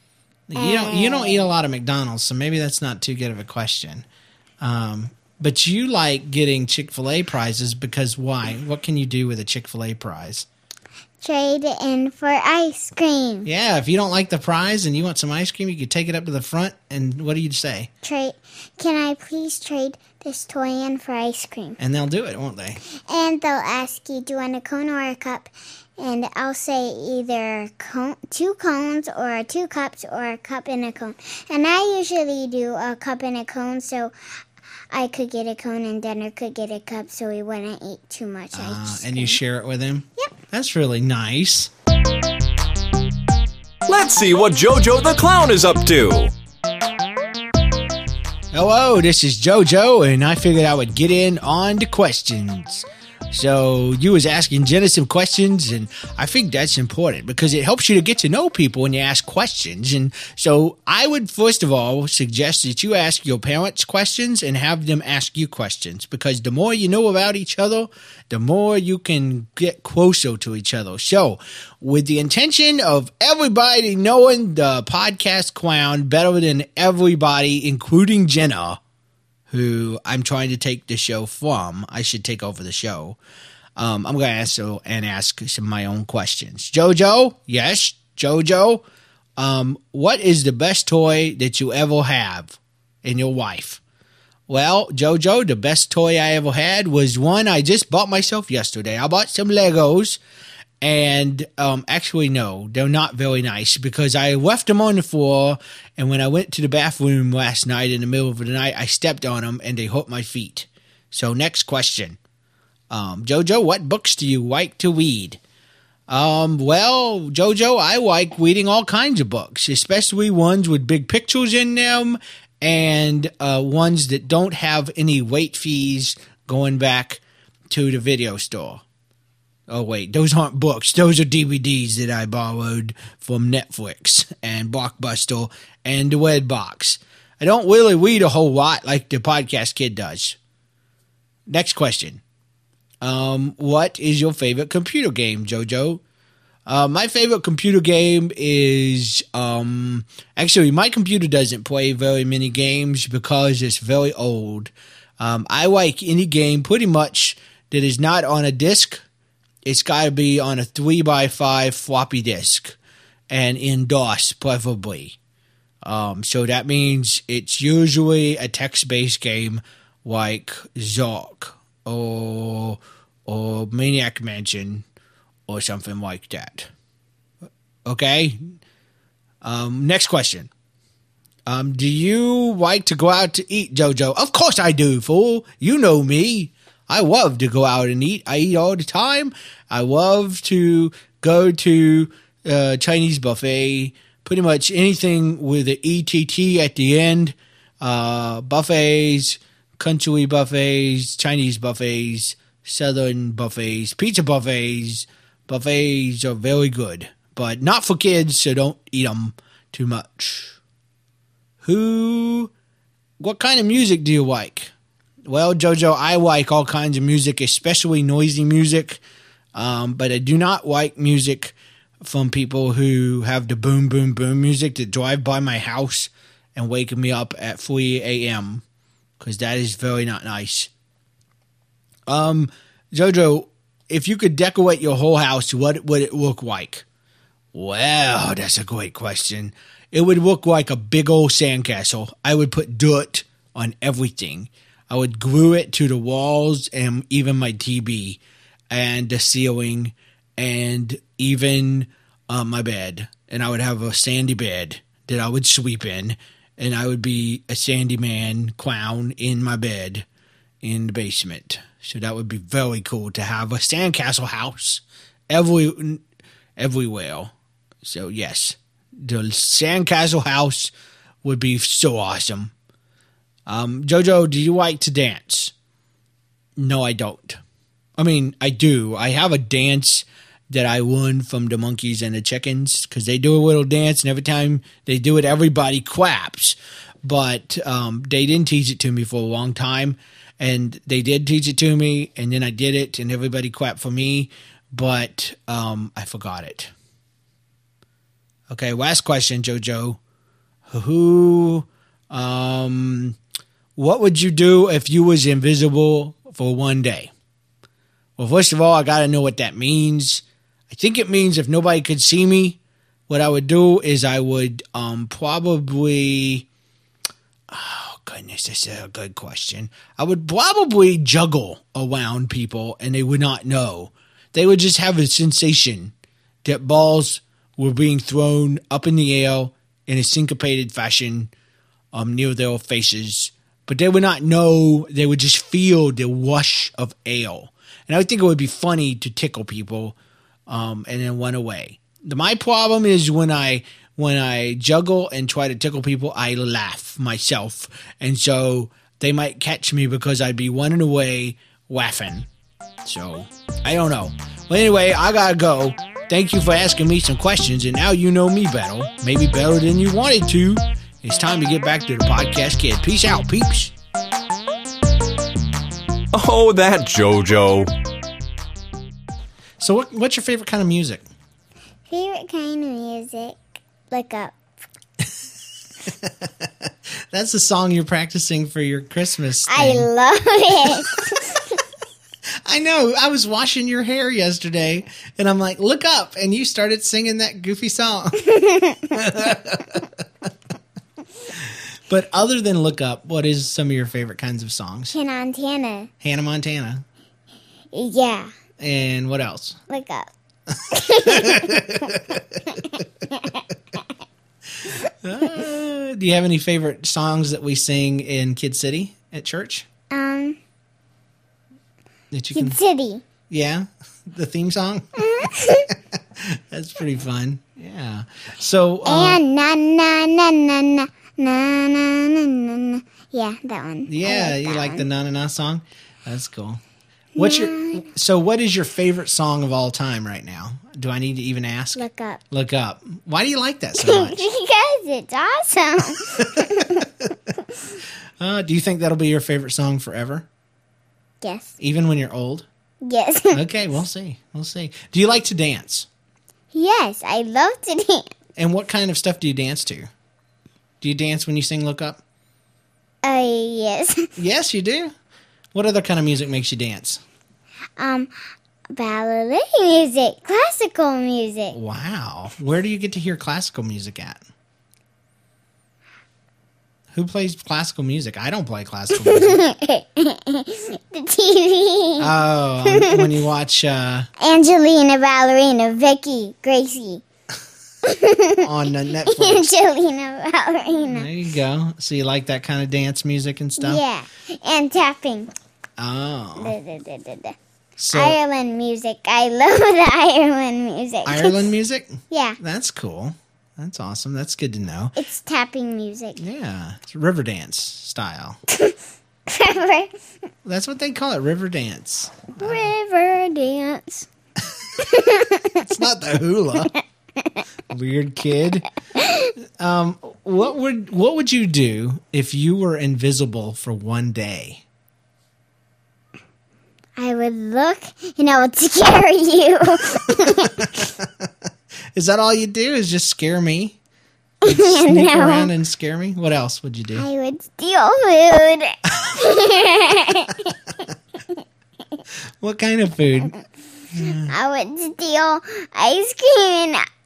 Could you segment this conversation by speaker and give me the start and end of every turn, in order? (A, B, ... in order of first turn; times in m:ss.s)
0:00.5-0:04.0 A
0:00.6-0:01.4 B
0:04.6-0:10.5 A
0:11.2-0:13.5 B
0:13.4-0:17.9 A
0:18.0-0:21.8 B
0:21.8-0:22.8 A
0:22.8-0:34.1 B
0:34.9-0:39.4 B
0:38.5-0:41.7 A
0:43.9-0:46.3 C
0:48.5-1:18.8 A
1:19.5-1:23.2 A
1:23.8-1:28.8 A
1:29.4-1:33.8 A
1:34.5-1:40.2 A
1:40.8-1:52.2 A
1:52.9-1:55.4 A
1:56.1-2:08.8 A
2:09.7-2:20.4 A
2:21.5-2:22.2 A
2:23.0-2:26.0 A
2:26.6-2:39.0 A
2:39.6-2:42.8 A
2:43.3-2:45.2 A
2:45.8-2:54.8 A
2:55.5-2:56.7 A
2:57.8-2:58.5 A
2:59.4-3:00.5 A
3:01.5-3:30.6 A
3:31.6-3:32.5 A
3:33.2-3:34.7 A
3:35.2-3:39.0 A
3:39.5-3:48.6 A
3:49.2-3:50.7 A
3:52.1-3:56.8 A
3:57.5-4:20.0 A
4:20.6-4:26.0 A
4:26.6-4:30.7 A
4:31.2-4:32.5 A
4:33.4-4:35.5 A
4:36.6-4:37.4 A
4:38.0-4:56.7 A
4:58.5-5:00.0 A
5:00.7-5:03.2 A
5:03.8-5:07.1 A
5:08.2-5:16.5 A
5:17.5-5:31.3 A
5:31.9-5:40.0 A
5:40.5-5:52.3 A
5:52.8-6:03.7 A
6:06.1-6:07.7 C
6:09.6-6:11.0 A
6:11.9-6:14.3 B
6:15.8-6:19.9 A
6:19.5-6:21.5 B
6:22.4-6:28.2 A
6:28.2-6:29.0 B
6:28.9-6:29.9 A
6:31.3-6:34.9 A
6:34.9-6:35.9 B
6:36.0-6:36.8 A
6:37.7-6:38.3 B
6:38.6-6:39.6 A
6:39.7-6:40.1 B
6:40.7-6:42.0 B
6:40.9-6:42.6 A
6:42.5-6:43.4 B
6:44.6-6:49.7 A
6:49.9-6:50.4 B
6:52.1-6:52.6 A
6:52.3-6:53.0 B
6:53.3-6:55.3 A
6:55.0-6:55.7 B
6:55.9-6:59.2 A
6:58.8-7:04.8 B
7:03.9-7:06.6 A
7:07.2-7:07.9 B
7:07.2-7:14.2 A
7:11.7-7:12.2 B
7:13.8-7:16.9 B
7:16.0-7:16.9 A
7:18.2-7:20.3 A
7:21.2-7:21.6 B
7:21.6-7:22.5 A
7:22.8-7:23.4 B
7:23.3-7:25.9 A
7:26.5-7:28.1 B
7:28.4-7:29.9 A
7:30.8-7:32.0 A
7:33.0-7:34.1 B
7:34.2-7:34.9 A
7:35.5-7:37.0 A
7:37.8-7:38.1 B
7:38.7-7:41.6 B
7:41.5-7:44.2 A
7:46.9-7:49.4 A
7:48.9-7:52.1 B
7:52.0-7:54.1 A
7:52.6-7:53.1 B
7:54.2-7:57.0 B
7:57.8-8:01.1 B
7:58.4-7:59.5 A
8:00.9-8:03.8 A
8:03.6-8:05.3 B
8:05.8-8:06.6 A
8:06.4-8:07.4 B
8:07.8-8:08.2 A
8:07.9-8:11.4 B
8:11.0-8:15.0 A
8:12.1-8:12.4 B
8:15.0-8:16.2 B
8:16.2-8:18.4 A
8:18.5-8:19.9 B
8:20.4-8:22.7 A
8:22.4-8:24.1 B
8:24.8-8:25.6 B
8:25.6-8:26.7 A
8:27.7-8:28.6 A
8:28.9-8:29.3 B
8:29.6-8:34.6 A
8:37.0-8:40.8 B
8:40.2-8:41.3 A
8:41.9-8:43.8 A
8:44.4-8:45.5 B
8:44.4-8:47.0 A
8:46.9-8:50.6 B
8:52.4-8:53.3 A
8:53.9-8:54.3 A
8:54.1-8:56.8 B